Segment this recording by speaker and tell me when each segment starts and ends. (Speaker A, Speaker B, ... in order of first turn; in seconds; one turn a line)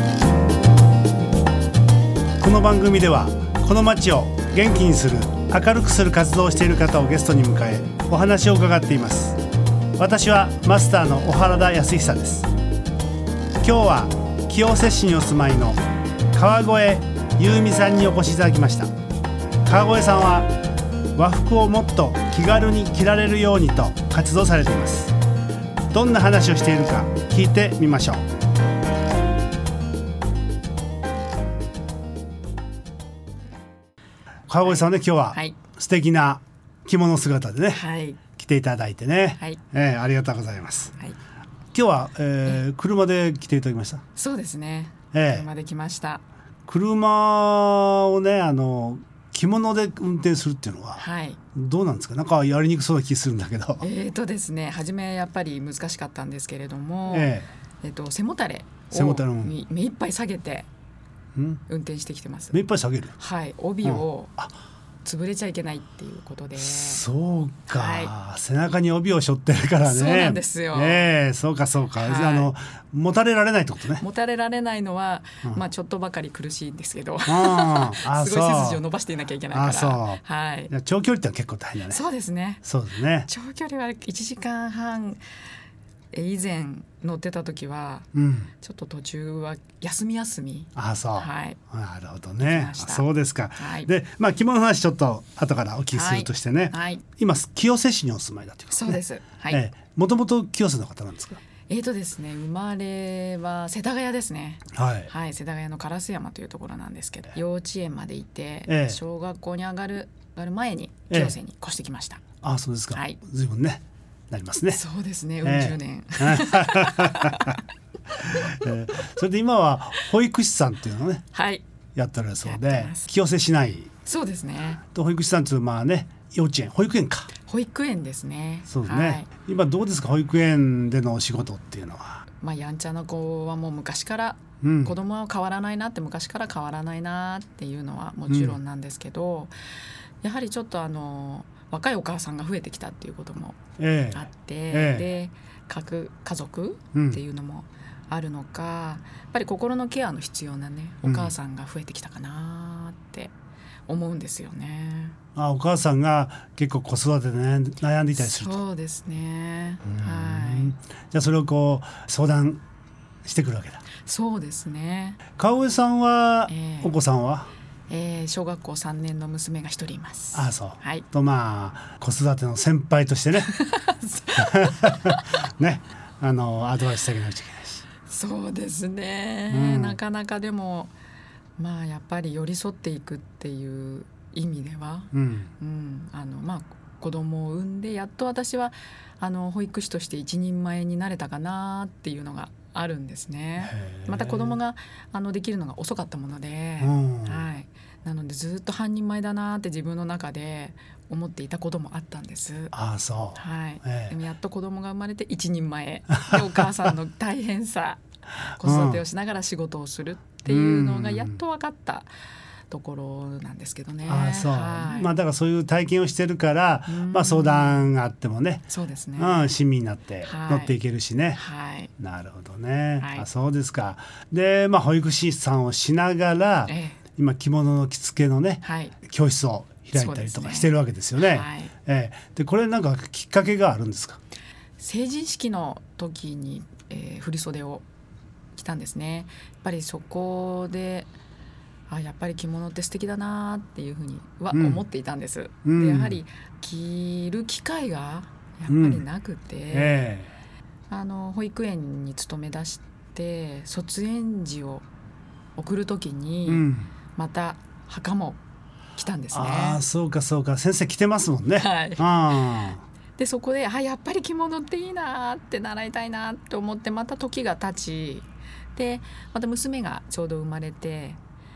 Speaker A: 2.4-9.4
Speaker A: 10.0-12.5
Speaker A: 13.6-18.9
Speaker A: 19.6-20.6
Speaker A: 21.1-25.1
Speaker A: 25.9-28.3
Speaker A: 34.5-37.8
Speaker B: 34.6-35.5
Speaker B: 37.7-38.2
Speaker A: 38.3-40.9
Speaker A: 41.7-44.0
Speaker B: 44.1-46.2
Speaker A: 45.1-45.5
Speaker A: 46.7-53.8
Speaker B: 51.0-51.4
Speaker B: 53.8-60.7
Speaker A: 57.1-57.5
Speaker A: 58.9-59.5
Speaker A: 61.3-61.6
Speaker B: 61.7-62.6
Speaker A: 62.5-63.1
Speaker B: 63.1-64.4
Speaker A: 63.8-64.5
Speaker B: 65.0-67.0
Speaker A: 66.6-74.0
Speaker B: 67.7-68.1
Speaker B: 69.8-71.1
Speaker B: 72.0-72.5
Speaker B: 74.0-80.7
Speaker A: 77.3-78.8
Speaker A: 79.5-82.0
Speaker B: 81.9-82.6
Speaker A: 82.6-83.3
Speaker B: 83.2-85.2
Speaker B: 86.1-91.6
Speaker A: 88.1-88.5
Speaker A: 90.8-101.4
Speaker B: 92.4-93.9
Speaker B: 95.9-97.0
Speaker B: 98.7-99.6
Speaker B: 101.7-112.2
Speaker A: 104.7-105.1
Speaker A: 108.7-109.0
Speaker A: 111.1-111.3
Speaker A: 112.4-114.8
Speaker B: 112.9-113.2
Speaker B: 114.7-117.6
Speaker A: 115.4-117.5
Speaker A: 118.2-121.2
Speaker B: 121.3-121.6
Speaker A: 121.9-123.9
Speaker B: 122.4-123.0
Speaker B: 124.0-124.8
Speaker A: 124.8-127.3
Speaker B: 127.5-129.3
Speaker A: 128.7-132.2
Speaker B: 132.4-139.5
Speaker A: 134.6-134.9
Speaker A: 138.3-138.6
Speaker B: 140.2-143.6
Speaker A: 143.8-145.1
Speaker B: 144.1-153.3
Speaker A: 146.9-147.2
Speaker A: 151.0-151.3
Speaker B: 153.9-155.2
Speaker A: 155.3-158.6
Speaker B: 158.2-160.7
Speaker A: 159.8-162.6
Speaker A: 163.2-163.8
Speaker B: 164.0-165.2
Speaker A: 165.4-167.5
Speaker B: 166.5-166.9
Speaker B: 167.9-171.0
Speaker A: 170.3-173.5
Speaker B: 173.5-175.1
Speaker A: 174.4-177.8
Speaker B: 178.1-180.9
Speaker A: 179.5-180.0
Speaker B: 181.6-202.7
Speaker A: 185.1-185.5
Speaker A: 193.6-194.6
Speaker A: 196.8-197.5
Speaker A: 202.7-204.1
Speaker B: 203.3-208.0
Speaker B: 208.6-212.1
Speaker A: 208.6-209.0
Speaker A: 210.4-211.4
Speaker B: 212.7-215.1
Speaker A: 214.1-221.4
Speaker B: 216.9-217.9
Speaker B: 218.7-219.5
Speaker B: 220.2-220.8
Speaker B: 221.3-221.9
Speaker A: 222.0-234.2
Speaker B: 223.0-223.2
Speaker B: 226.7-227.0
Speaker B: 228.6-228.9
Speaker B: 229.9-231.7
Speaker B: 234.8-237.8
Speaker B: 238.5-241.1
Speaker B: 241.9-250.0
Speaker A: 244.5-244.8
Speaker A: 245.6-246.2
Speaker A: 248.7-249.0
Speaker A: 249.7-250.3
Speaker B: 250.9-254.8
Speaker B: 255.6-258.4
Speaker A: 256.5-256.9
Speaker B: 258.9-259.8
Speaker A: 259.3-262.8
Speaker B: 261.6-262.5
Speaker B: 263.2-271.2